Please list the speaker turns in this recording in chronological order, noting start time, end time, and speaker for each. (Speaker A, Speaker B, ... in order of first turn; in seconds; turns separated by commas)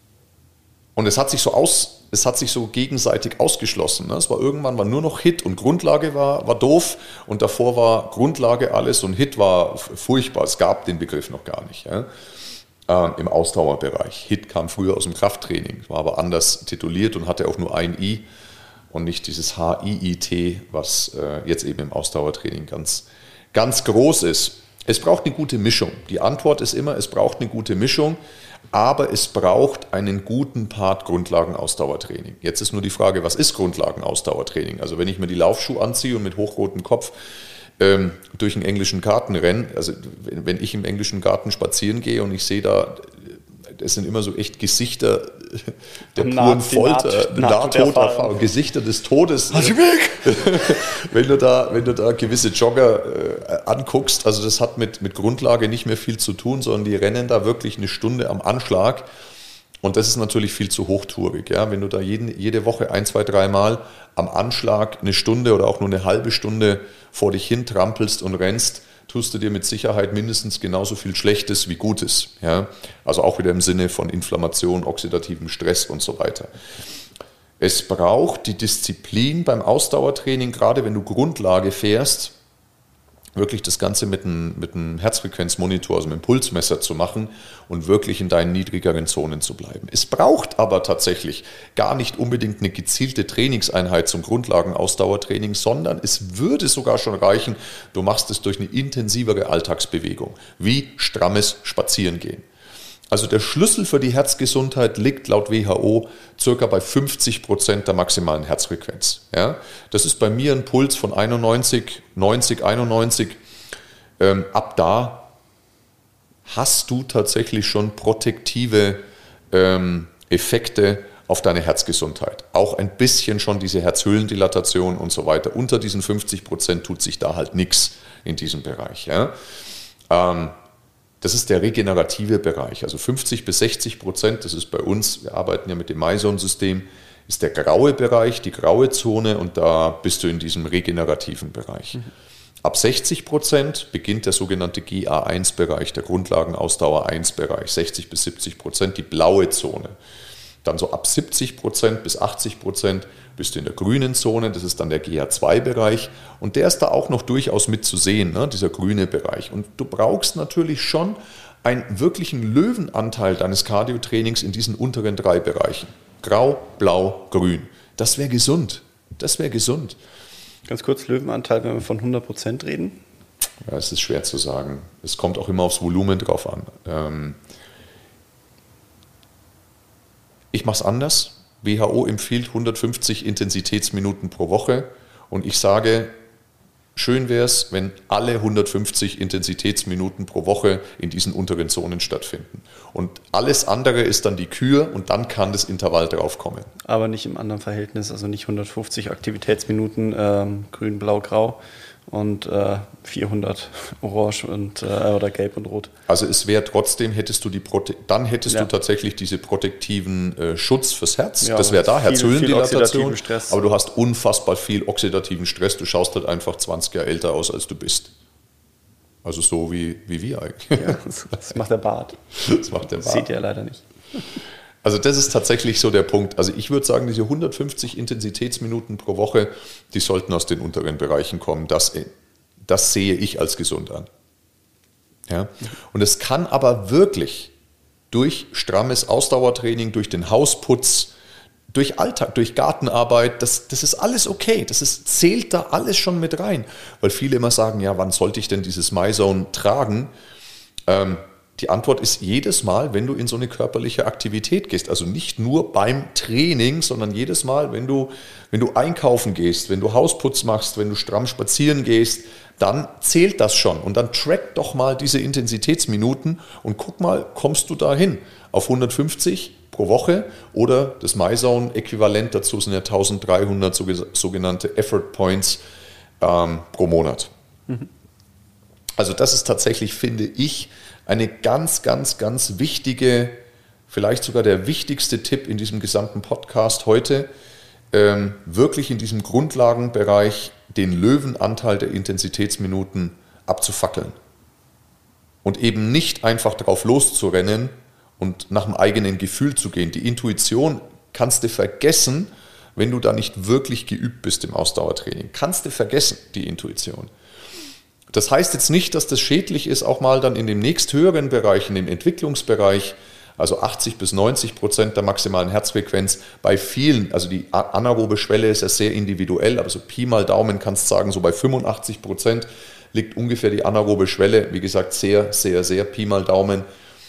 Speaker A: 0.9-12.1, Speaker A: 12.9-18.2, Speaker A: 18.9-28.2, Speaker A: 28.7-37.1, Speaker A: 37.8-59.0, Speaker B: 46.1-48.4, Speaker B: 49.5-50.7, Speaker A: 59.8-76.5, Speaker A: 77.6-82.3, Speaker A: 83.3-102.4, Speaker A: 103.1-113.4, Speaker A: 114.2-115.3, Speaker A: 116.5-129.3, Speaker A: 130.1-130.6, Speaker A: 131.2-142.1, Speaker A: 142.6-149.9, Speaker A: 150.6-170.0, Speaker B: 170.7-173.0, Speaker A: 173.7-177.4, Speaker A: 180.5-186.1, Speaker A: 186.9-196.7, Speaker B: 196.8-205.9, Speaker A: 206.1-218.1, Speaker B: 211.4-213.6, Speaker A: 219.2-221.0, Speaker B: 220.8-222.2, Speaker A: 222.3-223.3, Speaker B: 223.0-223.8, Speaker A: 224.8-232.1, Speaker A: 232.6-234.1, Speaker A: 235.3-237.5, Speaker A: 238.1-241.1, Speaker A: 241.7-250.1, Speaker A: 250.9-275.6, Speaker A: 276.2-277.3, Speaker A: 279.0-287.3, Speaker A: 287.9-294.1, Speaker A: 295.4-307.1, Speaker A: 308.1-326.6